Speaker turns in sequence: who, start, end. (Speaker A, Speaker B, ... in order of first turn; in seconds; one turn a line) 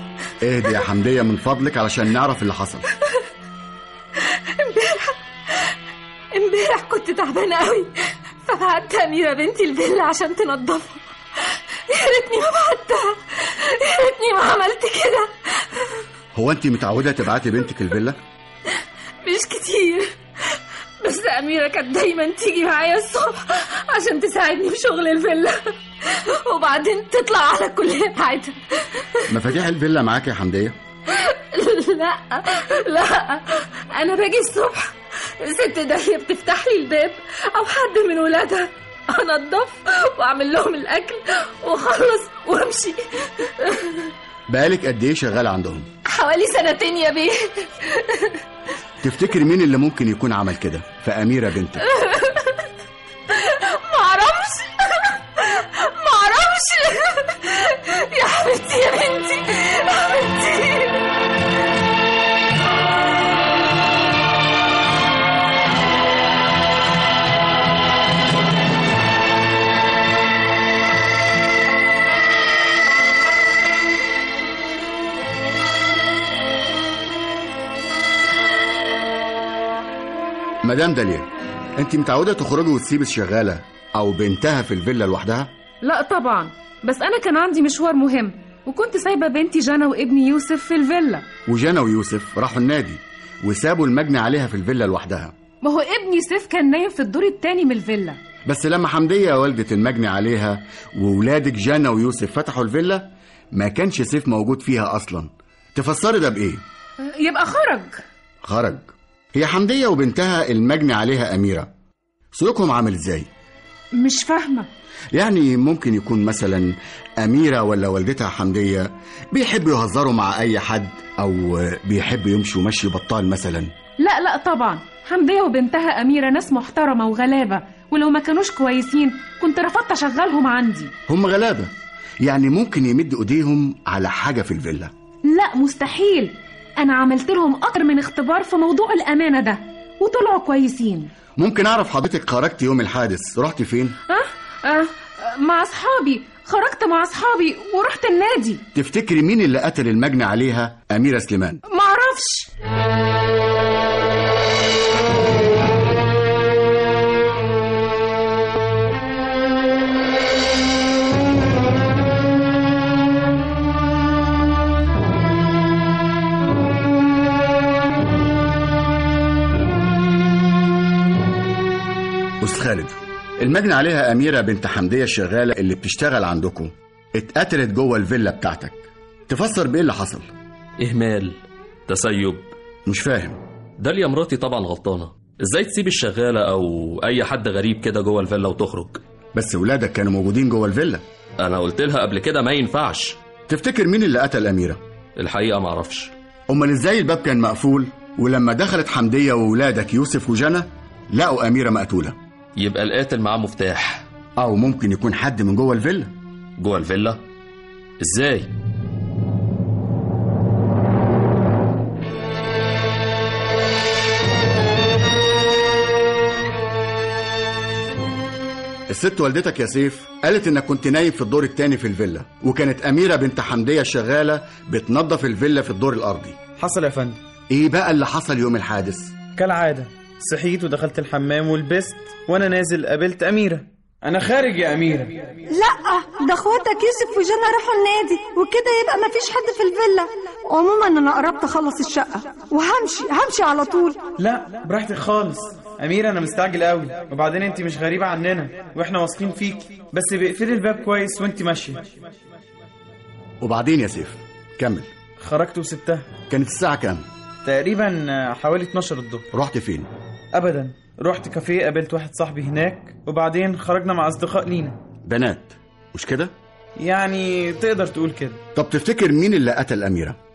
Speaker A: 0.4-2.9
Speaker B: 4.3-5.7
Speaker B: 6.3-15.8
Speaker A: 16.3-18.2
Speaker B: 19.2-29.2
Speaker A: 29.3-30.8
Speaker B: 31.1-44.1
Speaker A: 44.5-45.9
Speaker B: 46.1-48.4
Speaker A: 49.0-51.8
Speaker B: 51.8-52.7
Speaker B: 53.3-61.0
Speaker A: 80.6-85.5
Speaker C: 85.8-91.2
Speaker A: 91.5-95.3
Speaker C: 95.6-98.2
Speaker A: 98.5-106.6
Speaker C: 107.0-108.0
Speaker A: 108.4-111.7
Speaker A: 112.3-113.3
Speaker C: 114.0-114.7
Speaker A: 115.1-123.7
Speaker C: 124.0-130.9
Speaker A: 131.1-134.9
Speaker C: 135.3-141.1
Speaker A: 141.4-144.0
Speaker C: 144.1-148.6
Speaker A: 148.7-151.6
Speaker C: 151.7-152.5
Speaker A: 172.4-180.3
Speaker D: 180.8-182.5
Speaker A: 182.9-183.4
Speaker D: 183.8-189.0
Speaker A: 189.3-191.0
Speaker D: 191.4-193.2
Speaker A: 193.5-194.8
Speaker D: 195.2-196.1
Speaker A: 196.5-202.2
Speaker D: 202.6-204.1
Speaker A: 204.4-206.1
Speaker D: 206.6-207.2
Speaker D: 208.0-208.5
Speaker A: 218.9-226.4
Speaker E: 226.6-227.2
Speaker A: 227.5-229.2
Speaker E: 229.3-235.3
Speaker F: 235.6-243.9
Speaker E: 244.2-251.8
Speaker A: 253.4-254.9
Speaker E: 255.2-256.1
Speaker A: 256.3-257.1
Speaker E: 257.4-259.3
Speaker A: 259.3-259.9
Speaker E: 260.3-264.8
Speaker A: 265.0-266.3
Speaker E: 266.8-268.4
Speaker A: 268.6-270.2